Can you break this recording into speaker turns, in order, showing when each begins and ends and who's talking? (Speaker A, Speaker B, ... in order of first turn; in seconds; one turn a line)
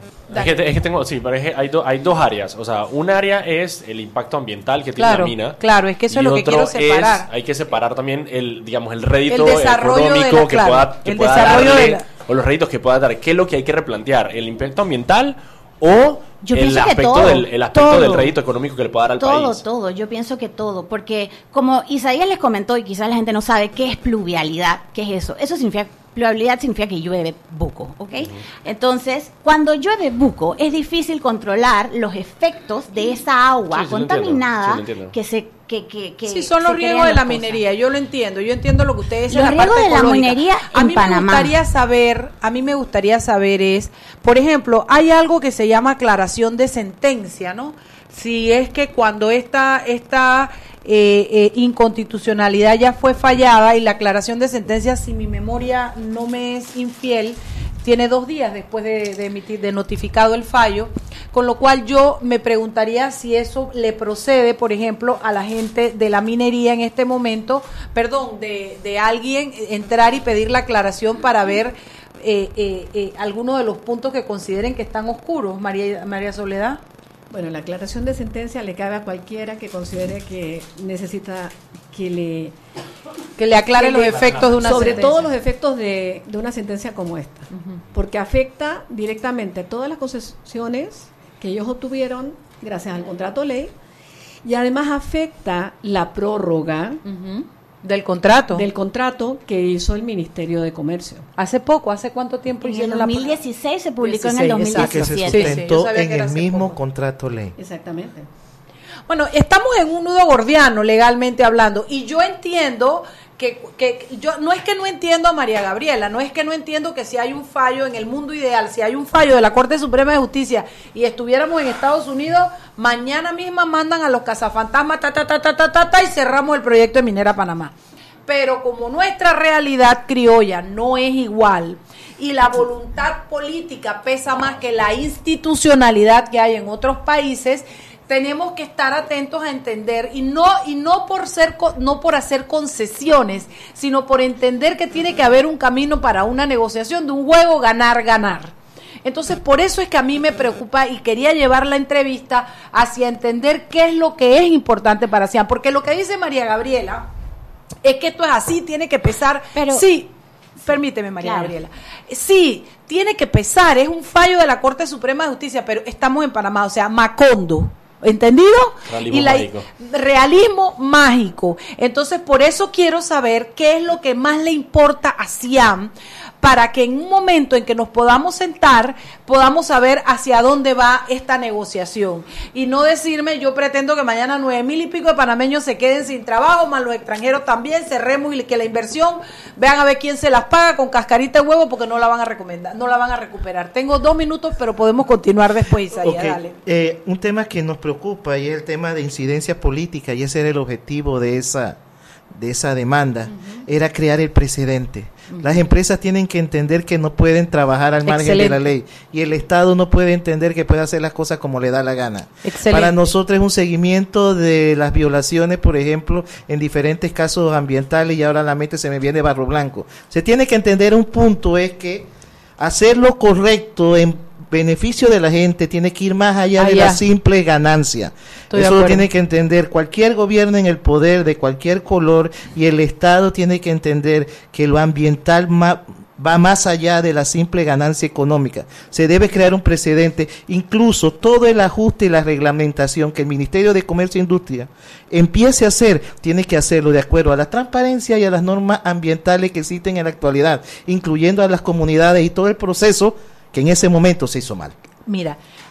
Speaker A: 0.3-5.6
Speaker B: 0.3-0.6
Speaker B: 5.0-7.3
Speaker A: 6.1-19.6
Speaker B: 9.3-12.0
Speaker C: 16.4-18.4
Speaker C: 19.2-37.6
Speaker A: 33.7-35.2
Speaker B: 36.3-76.8
Speaker C: 39.3-41.5
Speaker D: 77.3-82.6
Speaker B: 83.4-85.2
Speaker D: 83.7-93.7
Speaker A: 84.1-85.2
Speaker B: 87.5-87.8
Speaker D: 94.4-97.0
Speaker B: 97.0-98.7
Speaker D: 98.5-101.3
Speaker B: 101.4-103.4
Speaker C: 102.6-105.6
Speaker B: 104.0-106.8
Speaker E: 104.8-107.5
Speaker D: 107.6-108.3
Speaker B: 109.1-127.7
Speaker B: 128.3-148.5
Speaker B: 149.1-157.1
Speaker B: 157.8-160.1
Speaker C: 159.6-159.9
Speaker B: 160.6-196.6
Speaker C: 161.2-161.5
Speaker A: 168.9-169.7
Speaker E: 195.9-201.8
Speaker E: 202.3-254.7
Speaker B: 203.3-203.6
Speaker B: 208.1-208.6
Speaker B: 212.4-212.9
Speaker B: 226.6-227.0
Speaker B: 228.5-229.1
Speaker B: 255.1-255.4